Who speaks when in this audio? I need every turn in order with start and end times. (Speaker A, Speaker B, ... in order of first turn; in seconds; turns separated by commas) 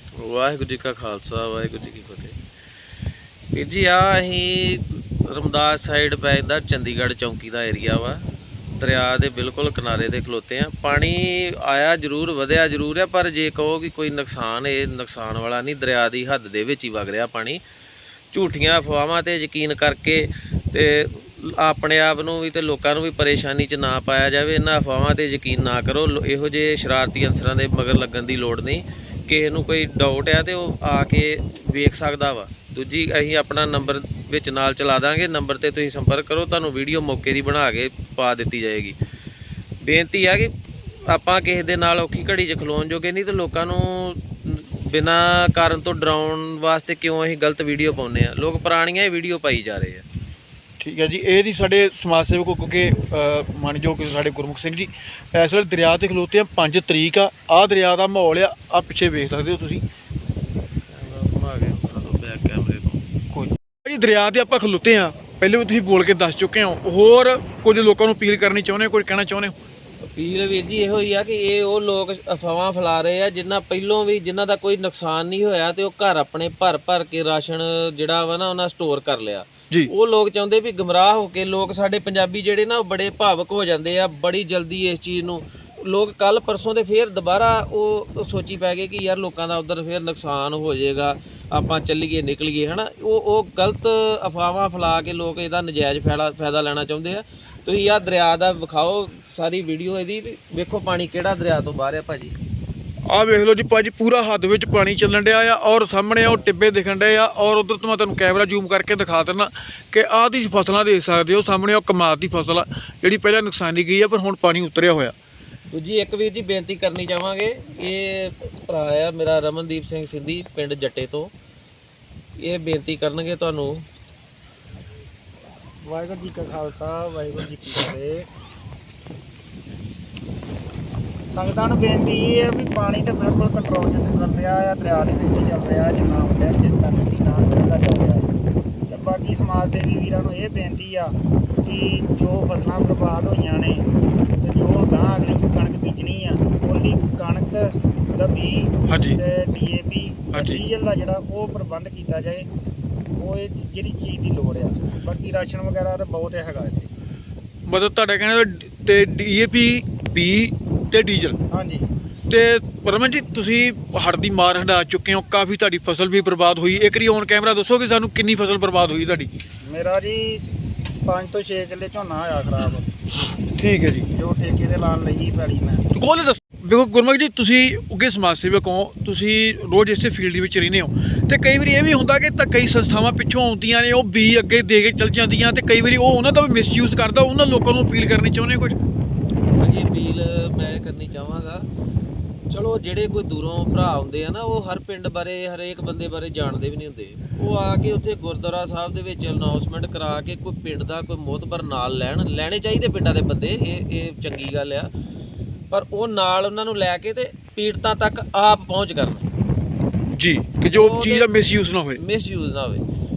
Speaker A: 0.2-2.4, Speaker A: 3.5-8.2, Speaker A: 8.8-17.6, Speaker A: 18.3-39.0, Speaker A: 39.8-40.5, Speaker A: 41.1-50.0, Speaker B: 50.8-59.8, Speaker A: 60.9-63.0, Speaker B: 63.3-69.5, Speaker A: 70.0-102.4, Speaker B: 103.1-115.2, Speaker A: 115.7-121.3, Speaker A: 122.4-123.8, Speaker C: 125.8-128.3, Speaker C: 131.3-138.3, Speaker C: 138.9-152.5, Speaker B: 148.9-149.2, Speaker B: 150.3-150.6, Speaker C: 153.2-156.9, Speaker B: 157.7-161.4, Speaker C: 161.5-161.9, Speaker B: 162.3-169.3, Speaker C: 169.6-170.4, Speaker C: 171.1-172.9, Speaker B: 173.6-174.1, Speaker C: 174.1-175.8, Speaker B: 175.9-188.8, Speaker A: 189.6-191.6, Speaker A: 192.5-204.9, Speaker A: 205.7-209.3, Speaker B: 210.1-212.0, Speaker A: 210.6-211.3, Speaker A: 211.9-212.8